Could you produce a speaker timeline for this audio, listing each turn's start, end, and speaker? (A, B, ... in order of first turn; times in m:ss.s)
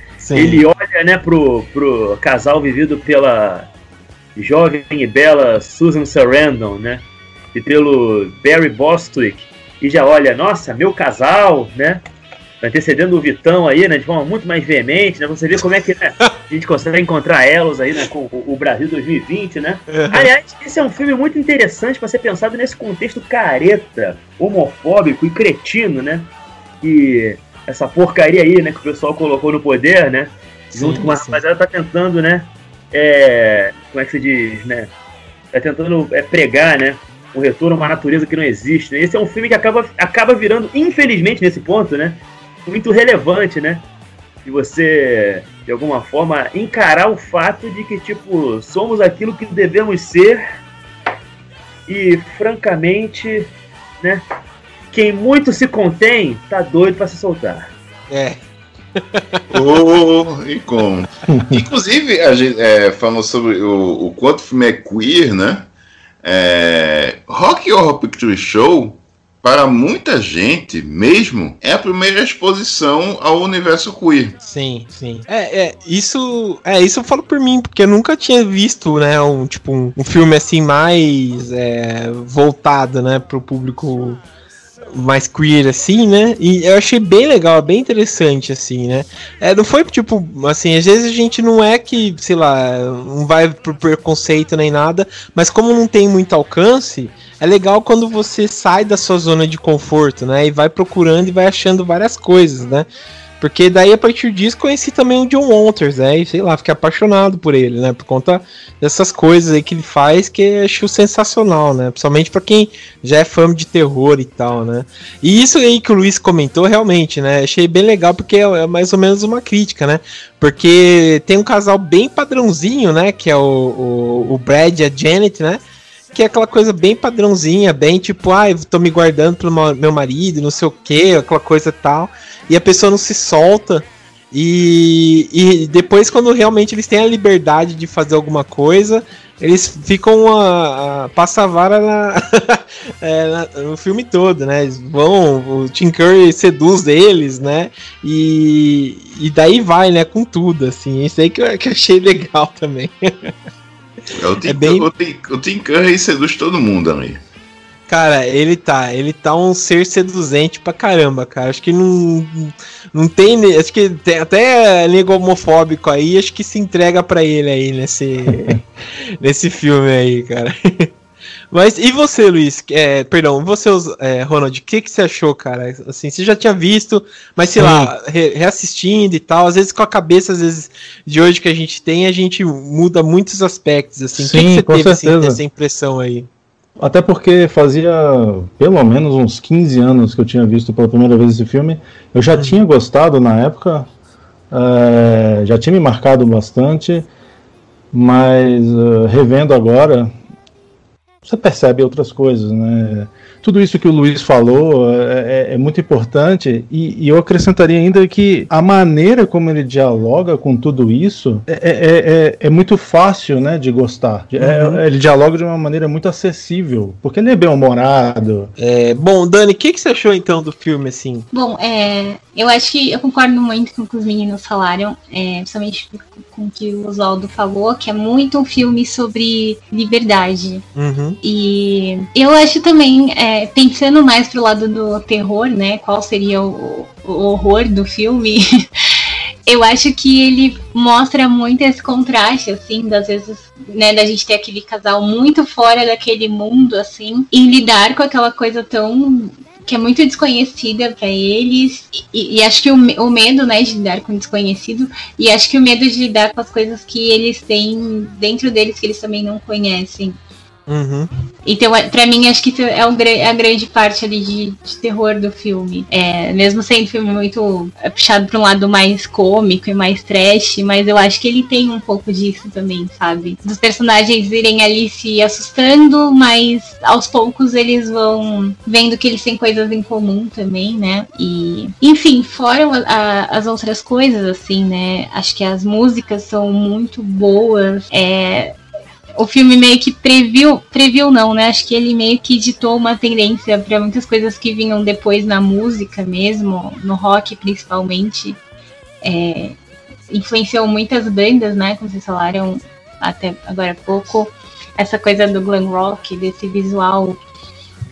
0:00.2-0:00.6 A
0:00.3-0:03.7 B
0:04.4-0:07.0 B
0:07.5-0:12.0 B
0:12.6-0:26.3 B
0:19.9-0:20.3 A
0:26.8-0:34.9 B
0:30.7-0:31.4 A
0:35.5-0:43.8 B
0:44.4-0:50.4 B
0:51.9-0:53.5 B
0:54.9-0:57.7 B
0:58.1-0:58.4 A
0:59.0-0:59.4 A
0:59.5-1:05.7 C
1:01.3-1:01.6 D
1:06.2-1:14.4 C
1:14.4-1:24.2 A
1:24.9-1:42.9 A
1:43.4-2:05.6 A
2:06.1-2:33.4 A
2:34.2-2:37.2 C
2:34.4-2:34.9 A
2:37.9-2:50.9 A
2:48.3-2:48.6 D
2:51.5-3:06.3 A
2:57.6-2:57.9 D
3:04.2-3:05.4 D
3:06.8-3:13.9 D
3:14.5-3:17.1 D
3:17.9-3:20.1 D
3:21.2-3:38.5 D
3:34.4-3:34.8 A
3:38.6-3:41.3 A
3:41.3-3:50.6 E
3:50.8-3:51.2 A
3:51.2-3:58.7 E
3:59.5-4:20.2 E
4:20.7-4:21.1 A
4:21.4-4:48.6 E
4:49.2-4:58.4 E
4:59.0-4:59.6 E
5:00.1-5:07.2 E